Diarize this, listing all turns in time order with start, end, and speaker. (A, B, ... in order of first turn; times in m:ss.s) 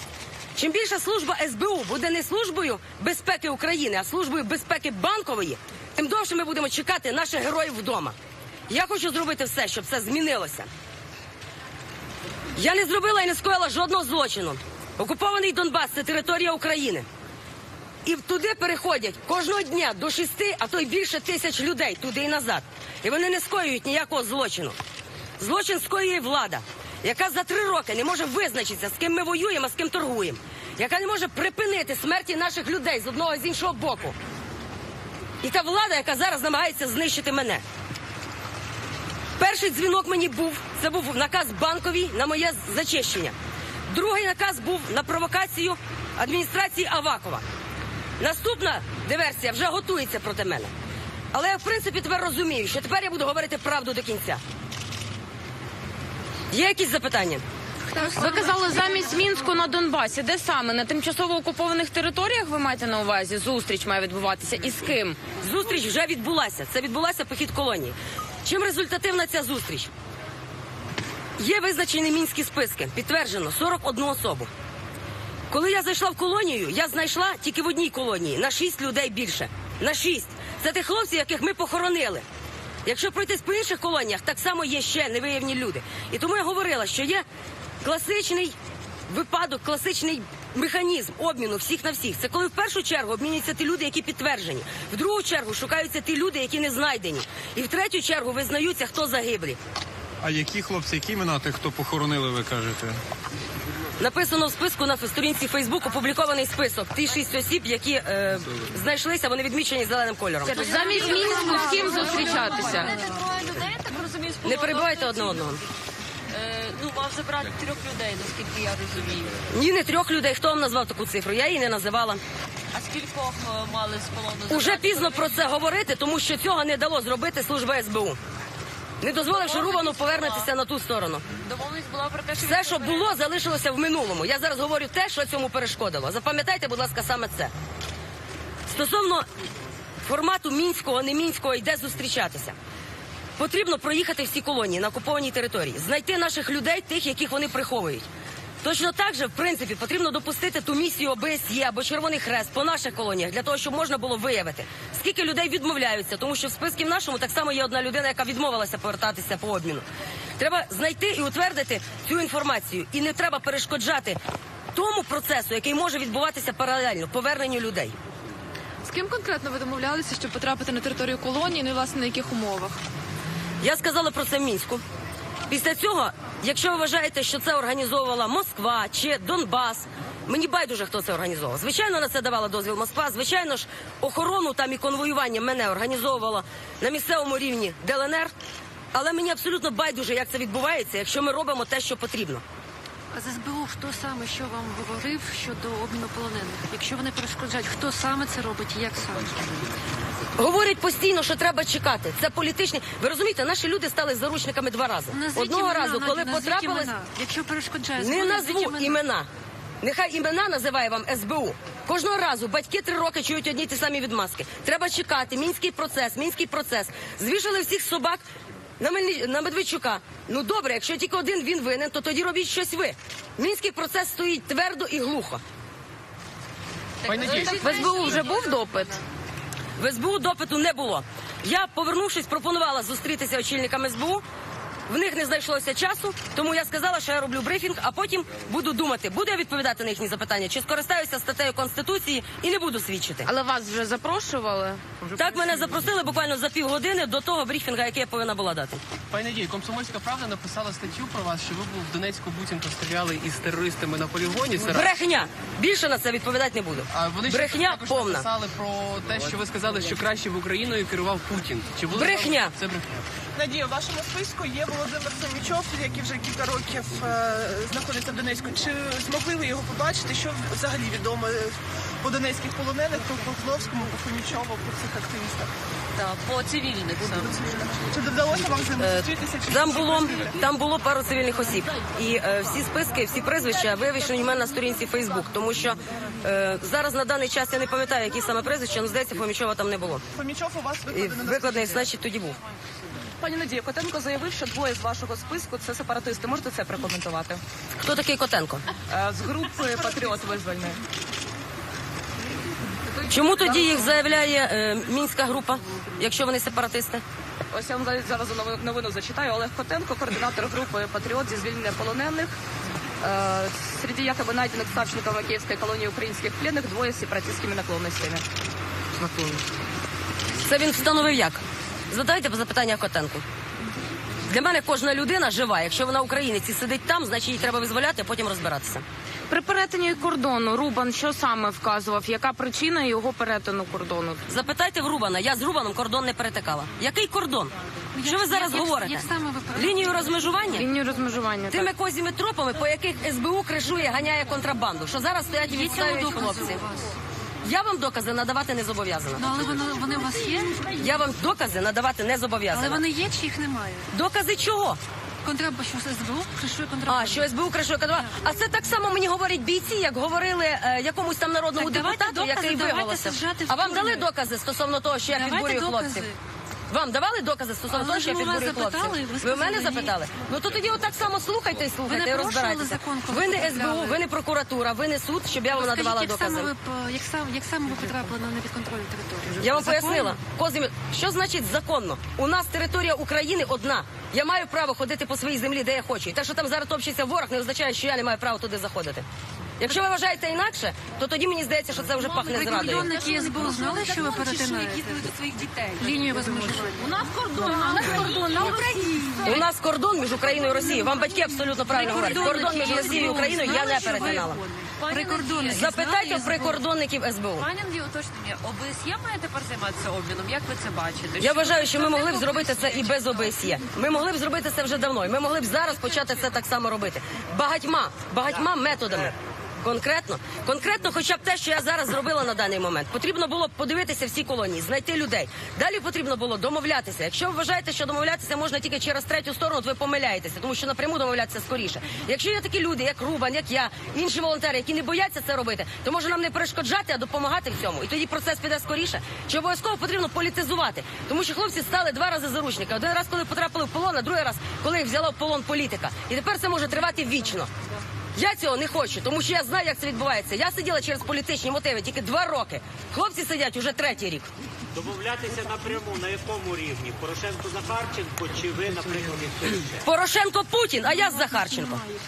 0:00.6-0:08.1 A
0:08.7-0:10.7 A
0:12.6-0:17.0 A
0:18.0-0:24.7 A
0:25.4-0:34.2 A
0:35.4-0:37.6 A
0:39.4-0:43.3 A
0:43.9-0:47.4 A
0:48.2-0:50.7 A
0:51.3-0:54.4 A
0:56.5-0:57.4 A
0:58.0-1:05.2 B
1:05.4-1:09.9 A
1:11.4-1:14.5 A
1:15.5-1:22.2 A
1:22.8-1:27.2 A
1:27.8-1:28.5 A
1:29.1-1:39.6 A
1:40.2-1:43.0 C
1:44.0-1:51.3 A
1:50.4-1:52.9 B
1:50.8-1:53.1 D
1:51.0-1:53.0 E
1:51.8-1:52.2 A
1:51.8-1:55.2 F
1:54.4-1:55.6 A
1:56.3-1:59.1 F
1:59.5-2:02.2 A
2:02.7-2:03.6 D
2:03.0-2:05.2 F
2:04.5-2:08.2 A
2:09.0-2:11.2 A
2:11.6-2:13.0 F
2:12.4-2:17.5 A
2:18.7-2:19.3 A
2:20.0-2:22.5 A
2:23.4-2:28.0 A
2:28.6-2:39.8 A
2:40.4-2:44.2 A
2:44.7-2:47.9 A
2:48.9-2:52.8 G
2:53.6-2:54.8 A
2:55.5-3:08.3 A
3:08.9-3:12.4 A
3:13.1-3:19.6 E
3:20.4-3:26.9 A
3:25.1-3:29.0 E
3:28.0-3:29.3 A
3:29.8-3:38.2 A
3:38.8-3:45.4 A
3:47.0-3:48.3 H
3:47.4-3:49.0 B
3:49.8-3:54.2 A
3:54.9-4:03.3 A
4:03.3-4:04.8 B
4:05.2-4:08.8 A
4:05.4-4:05.8 H
4:09.1-4:14.9 H
4:14.7-4:18.3 A
4:16.9-4:23.0 H
4:21.9-4:22.5 A
4:23.4-4:35.5 I
4:36.0-4:37.3 D
4:36.2-4:37.0 F
4:37.2-4:40.4 I
4:38.8-4:50.0 A
4:50.1-4:51.8 I
4:50.9-4:52.4 A
4:53.2-4:57.4 D
4:57.8-4:58.6 A
4:58.9-5:00.8 D
5:03.1-5:07.0 A
5:03.4-5:03.7 D
5:07.5-5:12.4 D
5:13.0-5:18.2 D
5:19.0-5:19.4 B
5:20.4-5:23.2 A
5:24.3-5:28.8 A
5:29.3-5:34.2 B
5:34.3-5:40.7 A
5:37.9-5:40.3 E
5:40.5-5:41.7 B
5:41.5-5:46.6 A
5:45.5-5:46.9 E
5:47.4-5:49.3 A
5:49.2-5:50.7 E
5:50.7-5:52.8 A
5:52.5-5:53.9 E
5:53.9-5:54.8 A
5:55.2-5:57.3 E
5:56.9-6:06.1 A
6:01.6-6:04.1 E
6:05.1-6:06.1 E
6:06.7-6:16.5 A
6:07.7-6:09.9 E
6:11.8-6:14.0 E
6:15.5-6:20.2 E
6:19.4-6:29.0 A
6:29.6-6:33.0 A
6:32.2-6:35.0 E
6:33.0-6:33.8 F
6:33.1-6:34.1 D
6:35.8-6:39.4 E
6:36.8-6:38.7 F
6:37.5-6:38.5 D
6:39.2-6:44.4 A
6:41.7-6:46.6 E
6:42.2-6:42.6 F
6:44.8-6:45.5 F
6:45.5-6:47.5 A
6:47.4-6:51.8 F
6:51.2-7:27.5 A
7:28.2-7:34.3 A
7:34.7-7:39.8 J
7:39.8-7:41.8 A